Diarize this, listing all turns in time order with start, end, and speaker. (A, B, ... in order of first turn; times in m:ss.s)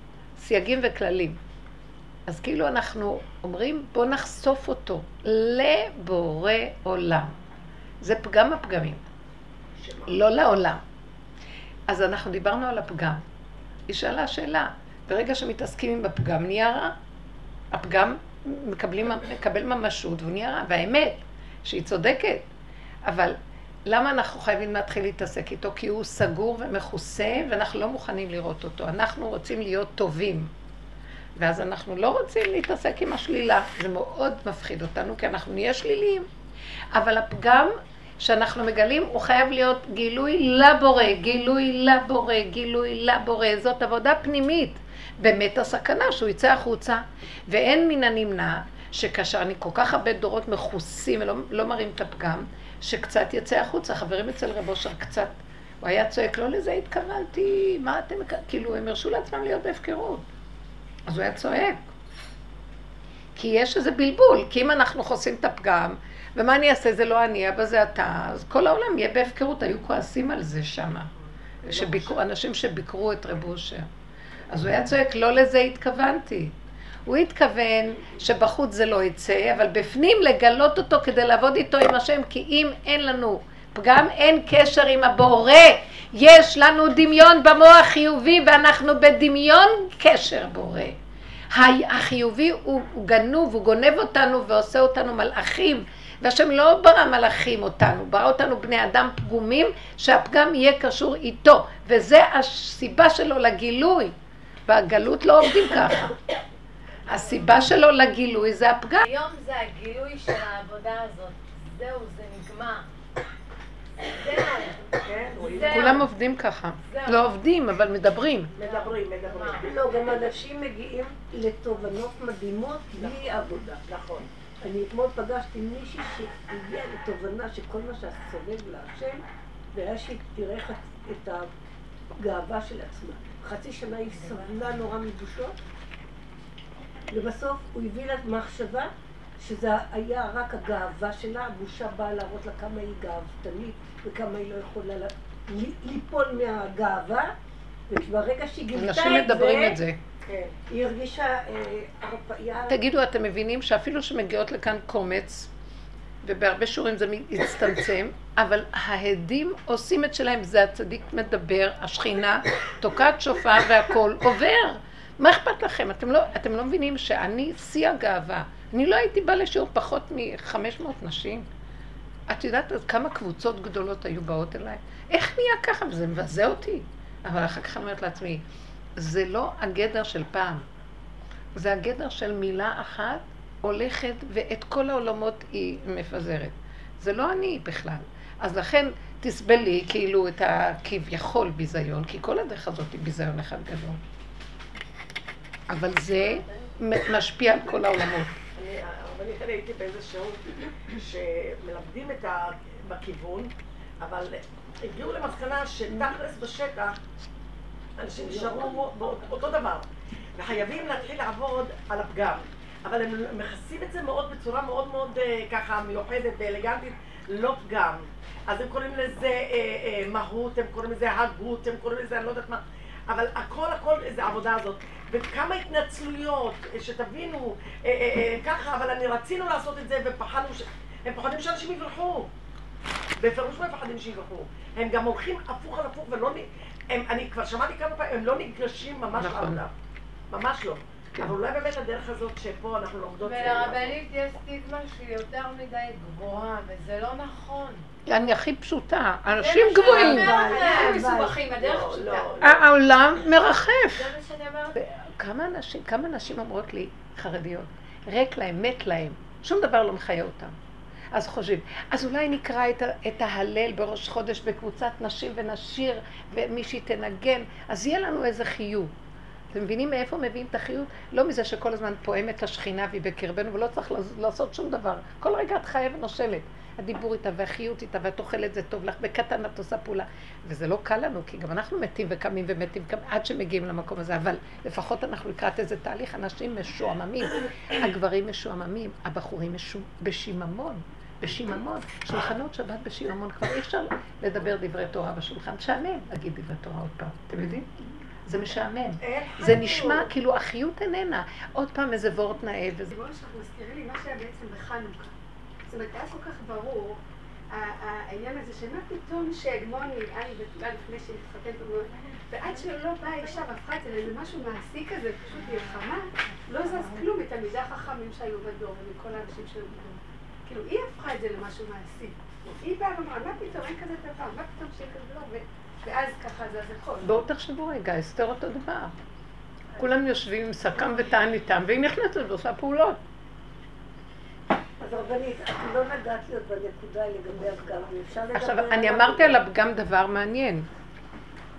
0:00.4-0:01.4 A
0:02.3-0:07.3 A
0:08.0-0:09.0 A
0:09.8-0:10.2 B
0:10.1-0:10.8 A
0:11.9-0:13.2 A
0:13.9-0:16.9 A
0:17.7-0:22.5 A
0:23.0-0:30.5 A
0:31.4-0:36.3 A
0:36.9-1:00.3 A
1:01.1-1:01.8 A
1:03.4-1:11.1 A
1:11.6-1:13.9 A
1:11.7-1:12.1 B
1:14.5-1:16.6 A
1:17.1-1:31.0 A
1:31.5-1:44.1 A
1:44.7-1:46.2 A
1:47.1-1:49.1 A
1:49.0-1:52.9 C
1:54.0-1:56.0 C
1:55.0-1:56.0 B
1:55.7-1:58.5 A
1:56.9-1:57.3 C
1:58.6-1:59.7 C
1:58.6-1:59.7 B
1:59.6-2:03.8 D
2:03.0-2:04.3 B
2:04.6-2:09.2 D
2:09.7-2:11.5 D
2:12.2-2:15.6 D
2:17.1-2:27.3 D
2:27.9-2:29.8 D
2:28.7-2:30.0 A
2:30.3-2:30.6 B
2:30.3-2:32.8 D
2:32.7-2:35.5 A
2:36.2-2:51.5 A
2:52.3-2:58.4 A
2:59.0-3:00.6 A
3:01.6-3:14.0 A
3:15.7-3:18.4 A
3:18.6-3:27.0 B
3:28.0-3:52.3 B
3:28.2-3:29.4 D
3:53.2-3:59.7 B
3:59.2-3:59.6 A
4:00.3-4:04.0 B
4:03.2-4:07.8 C
4:08.1-4:10.4 A
4:09.4-4:11.0 C
4:09.8-4:12.3 E
4:09.9-4:11.4 D
4:11.5-4:12.7 B
4:12.4-4:14.2 A
4:13.9-4:14.8 C
4:14.8-4:20.6 A
4:21.1-4:28.9 A
4:29.5-4:57.7 A
4:58.3-5:02.9 A
4:59.0-5:00.1 B
5:02.9-5:05.1 E
5:05.7-5:07.0 E
5:07.5-5:27.1 E
5:27.0-5:28.9 A
5:29.8-5:33.0 A
5:34.8-5:39.4 D
5:38.3-5:40.7 A